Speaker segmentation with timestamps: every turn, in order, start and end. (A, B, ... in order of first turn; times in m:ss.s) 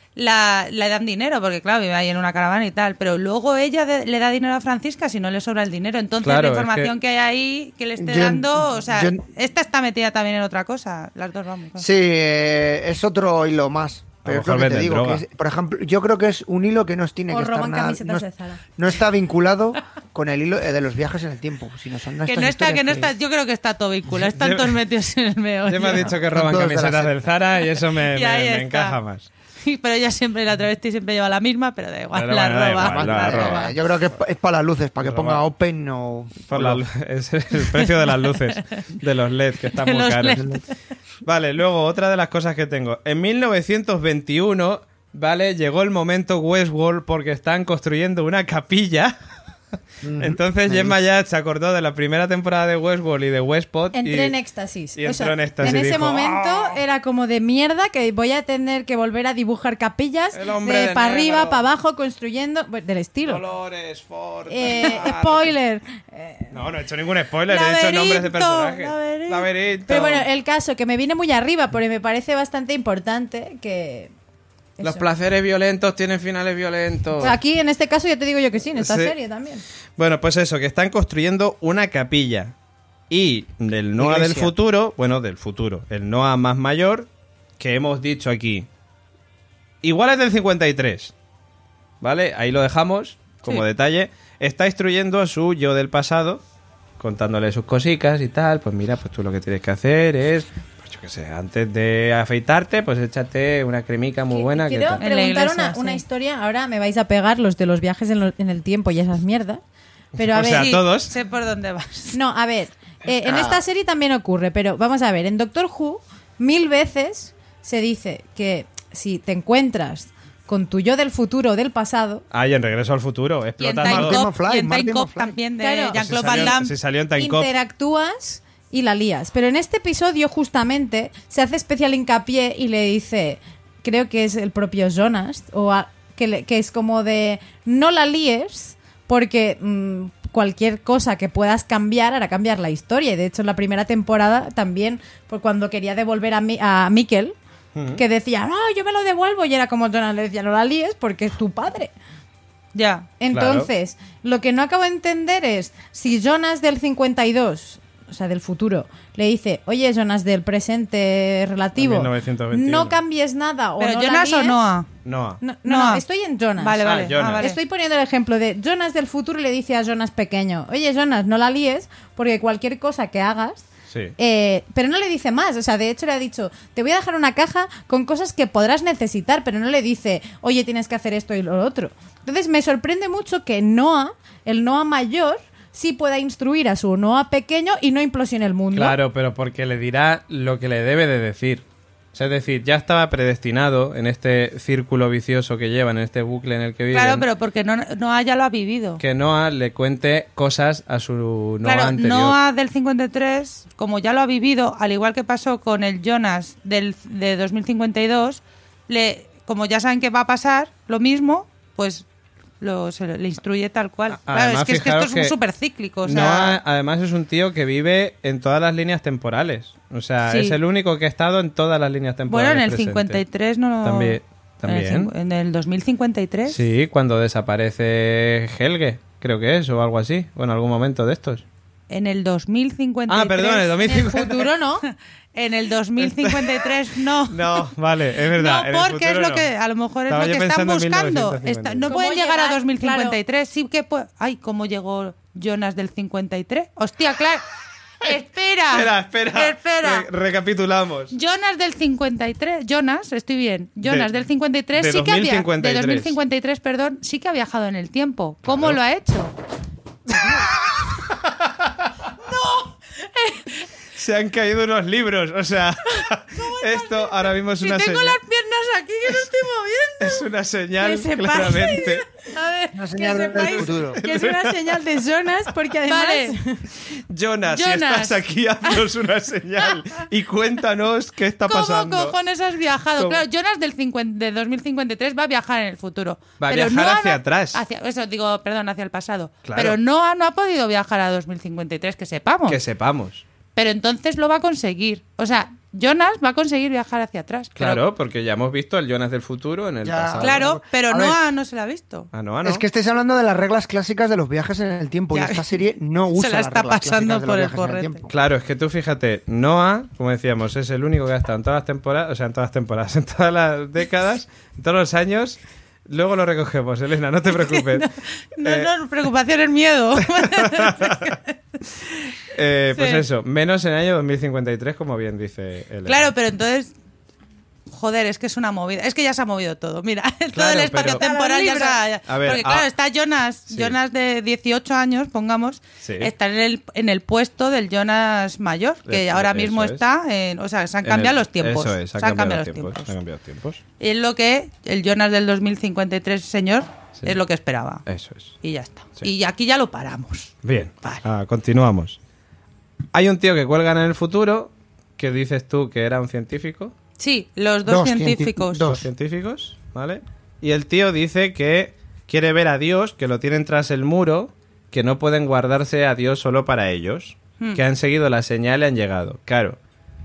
0:00.2-0:11.9 A
0:06.2-0:06.9 B
0:08.0-0:09.2 C
0:11.8-0:23.1 C
0:14.2-0:15.2 B
0:17.3-0:18.6 D
0:22.3-0:26.1 A
0:24.3-0:24.8 B
0:25.7-0:29.3 B
0:26.0-0:27.2 C
0:27.9-0:29.0 A
0:29.6-0:33.7 A
0:32.1-0:33.8 B
0:32.8-0:36.8 C
0:35.0-0:35.4 B
0:36.5-0:40.6 B
0:37.7-0:38.8 A
0:39.7-0:40.7 A
0:41.2-0:49.2 B
0:50.0-0:51.0 C
0:50.2-0:54.4 B
0:53.9-1:03.4 D
0:55.0-0:56.8 B
1:00.3-1:01.6 B
1:03.2-1:05.5 B
1:04.5-1:06.5 D
1:06.5-1:10.3 B
1:07.5-1:09.5 A
1:09.9-1:14.1 D
1:14.8-1:15.1 D
1:14.8-1:17.4 B
1:17.2-1:19.6 D
1:18.8-1:19.2 B
1:20.0-1:22.6 B
1:23.1-1:28.7 B
1:24.0-1:24.5 C
1:29.8-1:31.1 B
1:32.0-1:36.4 B
1:37.0-1:45.0 B
1:44.3-1:49.6 D
1:45.0-1:46.0 A
1:50.2-1:50.8 D
1:50.2-1:51.1 B
1:50.5-1:52.2 A
1:52.1-2:02.2 D
1:53.2-1:53.6 C
2:02.3-2:04.2 B
2:03.6-2:06.7 A
2:03.8-2:05.4 C
2:05.6-2:06.6 D
2:06.0-2:07.5 B
2:07.2-2:27.4 D
2:27.8-2:28.0 B
2:28.0-2:31.9 D
2:32.7-2:33.1 A
2:33.2-2:44.6 D
2:33.3-2:33.7 B
2:41.8-2:43.0 B
2:43.8-2:44.9 A
2:45.0-2:45.4 B
2:45.4-2:53.6 D
2:45.7-2:46.0 A
2:46.6-2:47.6 A
2:46.8-2:47.5 B
2:53.9-2:54.2 B
2:54.2-3:09.0 D
3:08.7-3:17.3 B
3:16.9-3:19.0 A
3:19.0-3:22.4 B
3:21.6-3:32.0 A
3:32.6-3:36.6 A
3:34.2-3:35.3 B
3:36.0-3:43.2 B
3:40.2-3:40.6 A
3:42.3-3:46.6 A
3:43.8-3:45.1 B
3:46.5-3:51.4 B
3:51.9-3:54.2 A
3:53.1-3:54.5 B
3:53.8-3:54.9 D
3:54.9-3:57.7 A
3:56.0-3:56.7 B
3:57.3-3:59.5 B
3:58.3-4:07.4 A
4:00.1-4:01.9 B
4:01.9-4:03.2 D
4:08.0-4:10.1 A
4:08.7-4:11.1 B
4:11.1-4:19.3 A
4:13.8-4:14.1 B
4:14.8-4:16.2 B
4:18.5-4:18.8 B
4:20.1-4:21.9 B
4:22.2-4:23.6 A
4:24.0-4:28.2 B
4:26.0-4:30.3 A
4:30.0-4:32.0 B
4:30.8-4:34.4 A
4:32.8-4:34.0 C
4:33.0-4:33.4 D
4:33.4-4:34.7 B
4:33.9-4:36.6 D
4:35.9-4:36.4 A
4:37.1-4:42.2 B
4:37.5-4:38.8 A
4:41.5-4:52.6 A
4:46.4-4:47.6 B
4:49.4-4:49.8 B
4:52.5-4:53.2 B
4:53.6-4:57.8 A
4:57.6-5:00.4 B
4:59.8-5:01.2 C
5:00.2-5:02.1 A
5:02.1-5:02.6 B
5:02.4-5:08.1 C
5:05.1-5:05.5 A
5:06.2-5:08.0 A
5:08.1-5:17.9 B
5:17.3-5:21.2 A
5:18.4-5:18.7 B
5:20.2-5:21.2 B
5:22.3-5:26.1 B
5:22.7-5:23.1 A
5:25.9-5:26.7 A
5:27.7-5:42.9 A
5:30.3-5:31.0 B
5:31.0-5:31.8 D
5:32.1-5:32.7 B
5:33.5-5:33.8 B
5:35.8-5:36.1 B
5:38.9-5:39.8 B
5:40.8-5:43.6 B
5:43.8-5:47.9 A
5:47.9-5:48.4 B
5:48.4-5:51.0 A
5:50.4-5:52.0 B
5:52.9-5:56.8 B
5:57.0-5:58.7 A
5:57.7-5:58.9 C
5:58.6-6:09.6 B